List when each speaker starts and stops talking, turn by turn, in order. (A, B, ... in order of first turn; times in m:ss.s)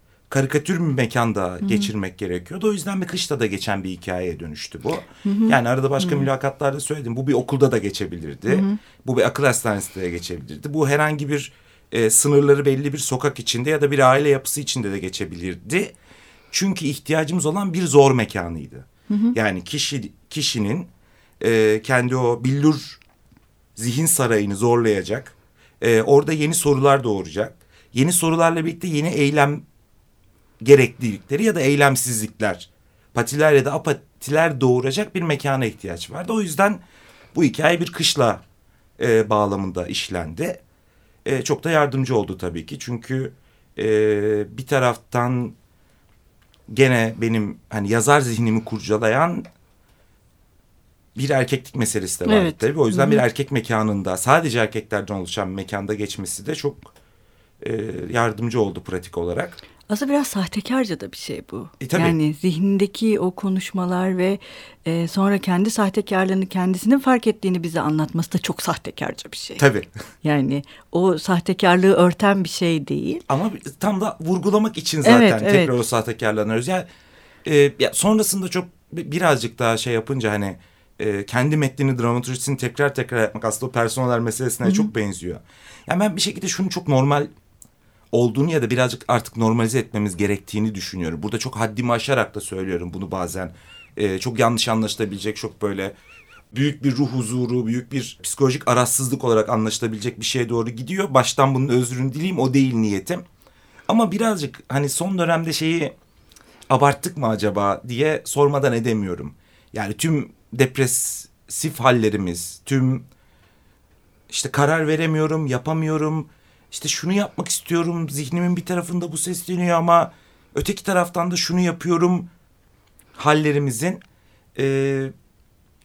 0:00.3-0:16.0 A
0:01.6-0:01.9 B
0:05.2-0:06.3 B
0:08.5-0:08.8 B
0:16.5-0:23.0 A
0:19.1-0:19.4 B
0:23.8-0:29.6 A
0:30.6-0:36.8 A
0:37.3-0:38.4 A
0:39.0-0:40.6 A
0:41.2-0:45.6 A
0:46.7-0:49.5 A
0:51.2-0:56.9 A
0:52.2-0:53.2 B
0:57.6-0:59.6 A
0:59.9-1:09.6 B
1:01.8-1:02.2 A
1:09.6-1:09.9 A
1:10.2-1:13.2 B
1:13.3-1:16.9 A
1:15.0-1:15.8 B
1:17.4-1:27.3 A
1:24.6-1:24.9 B
1:28.1-1:35.9 A
1:36.5-1:43.2 A
1:43.9-1:46.0 A
1:46.7-1:53.1 A
1:54.3-2:02.3 A
2:03.2-2:04.0 A
2:04.6-2:05.1 A